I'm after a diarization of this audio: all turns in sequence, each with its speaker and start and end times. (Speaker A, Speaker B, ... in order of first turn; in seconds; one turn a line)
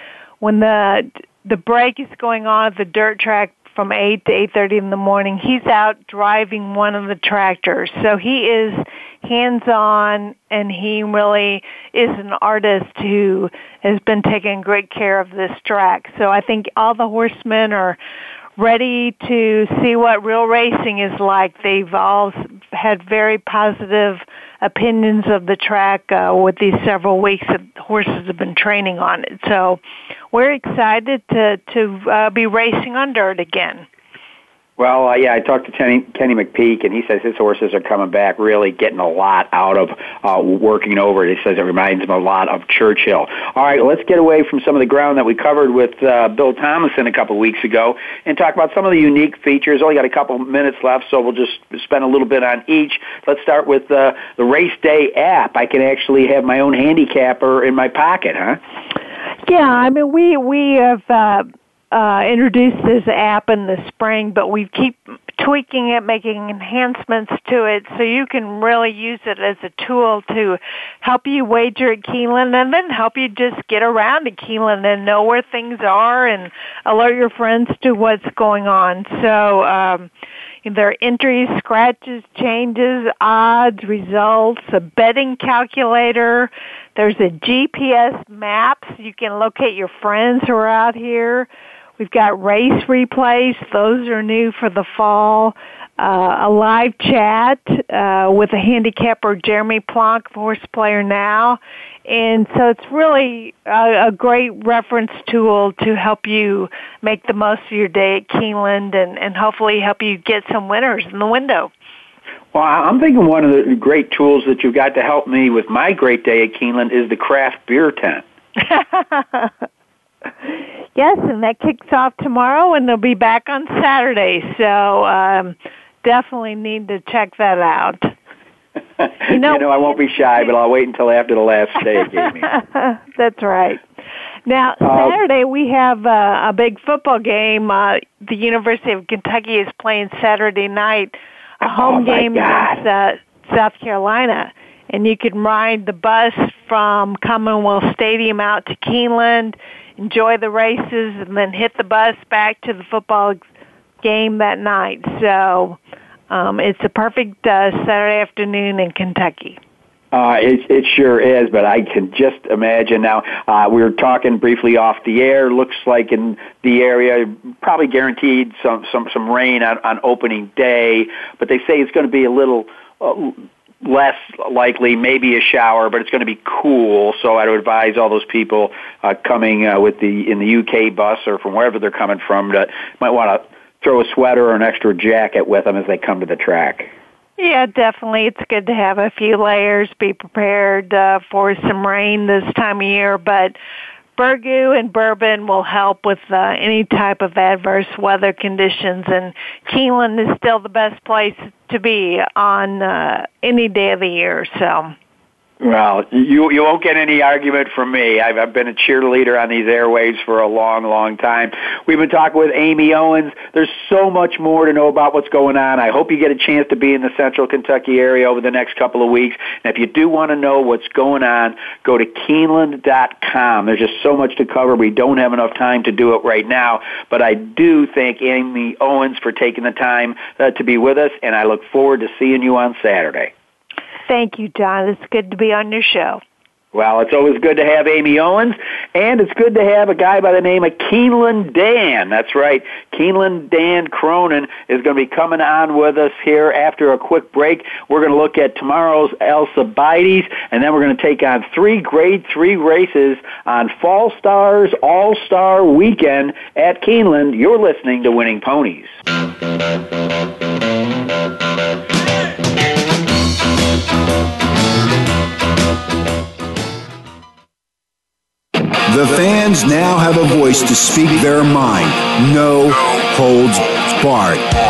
Speaker A: 0.4-18.0
Speaker A: 18.6-29.8
Speaker A: 30.3-33.9
Speaker B: 34.8-58.6
Speaker A: 59.5-80.1
Speaker A: 80.6-91.5
Speaker A: 92.0-111.7
Speaker B: 112.5-118.2
Speaker A: 118.7-119.5
Speaker A: 121.0-128.1
Speaker B: 129.0-132.5
Speaker A: 129.3-130.5
Speaker A: 132.5-133.8
Speaker A: 134.5-153.4
Speaker B: 134.8-135.2
Speaker B: 141.6-142.8
Speaker A: 154.0-155.8
Speaker A: 156.3-159.6
Speaker B: 160.1-186.9
Speaker A: 187.4-193.6
Speaker A: 194.2-204.9
Speaker B: 205.6-233.3
Speaker A: 234.1-236.2
Speaker B: 236.7-258.9
Speaker C: 268.9-274.5